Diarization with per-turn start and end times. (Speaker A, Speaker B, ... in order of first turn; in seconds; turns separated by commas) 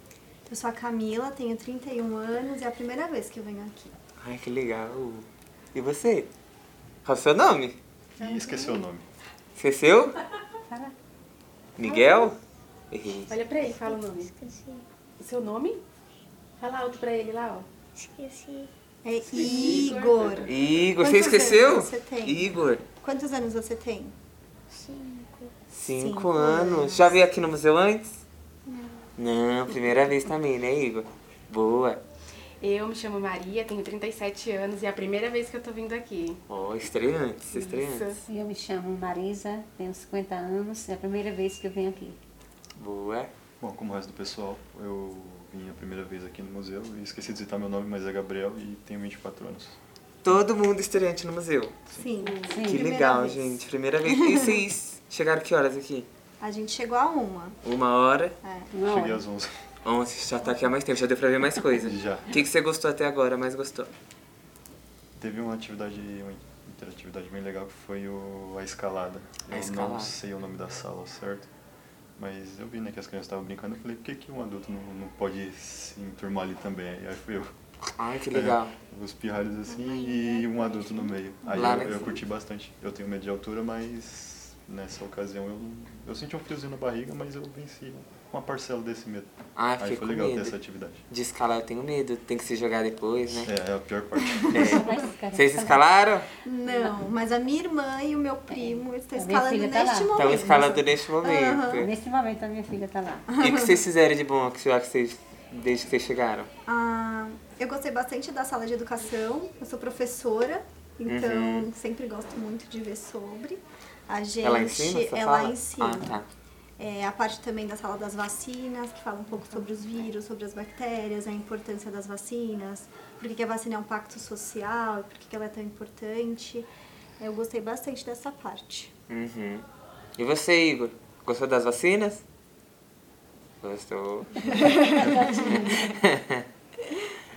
Speaker A: 0.5-3.9, Speaker B: 4.2-6.3, Speaker B: 7.0-7.8, Speaker C: 8.2-9.1, Speaker D: 8.2-8.8, Speaker B: 9.6-10.2, Speaker B: 11.8-12.4, Speaker E: 11.9-12.3, Speaker B: 12.9-13.4, Speaker D: 13.3-14.4, Speaker E: 13.6-14.8, Speaker D: 15.2-15.8, Speaker D: 16.6-17.7, Speaker E: 18.0-18.7, Speaker A: 19.0-24.1, Speaker D: 19.3-20.5, Speaker B: 20.5-22.8, Speaker E: 24.7-25.5, Speaker B: 25.7-28.2, Speaker A: 25.8-27.2, Speaker E: 28.7-29.1, Speaker B: 29.2-32.0, Speaker D: 32.6-36.4, Speaker B: 36.5-38.1, Speaker D: 37.5-38.2, Speaker F: 38.2-42.2, Speaker B: 42.8-43.3, Speaker C: 43.6-49.8, Speaker B: 50.2-51.8, Speaker A: 51.9-54.6, Speaker F: 52.5-52.9, Speaker B: 52.6-56.1, Speaker A: 56.4-57.6, Speaker B: 57.6-58.3, Speaker A: 58.4-58.7, Speaker F: 58.7-59.2, Speaker C: 58.8-59.5, Speaker B: 59.9-63.9, Speaker C: 61.8-62.4, Speaker C: 65.2-71.5, Speaker B: 69.5-70.2, Speaker C: 72.2-77.5, Speaker B: 78.0-78.8, Speaker C: 78.3-91.0, Speaker E: 79.7-81.0, Speaker B: 81.5-82.1, Speaker B: 89.6-90.6, Speaker B: 91.1-93.5, Speaker C: 93.5-94.8, Speaker A: 94.3-94.8, Speaker B: 94.5-96.3, Speaker F: 94.7-95.8, Speaker A: 96.4-101.9, Speaker F: 96.7-97.0, Speaker F: 98.5-100.8, Speaker B: 100.2-101.9, Speaker F: 101.7-103.3, Speaker A: 103.3-103.8, Speaker B: 103.4-106.5, Speaker A: 106.7-116.2, Speaker B: 111.1-111.7, Speaker B: 114.4-116.3, Speaker A: 116.8-126.7, Speaker A: 127.2-128.9, Speaker B: 129.1-129.7, Speaker B: 130.2-132.2, Speaker B: 133.6-134.8, Speaker F: 134.4-136.0, Speaker A: 134.6-135.7, Speaker B: 135.5-136.4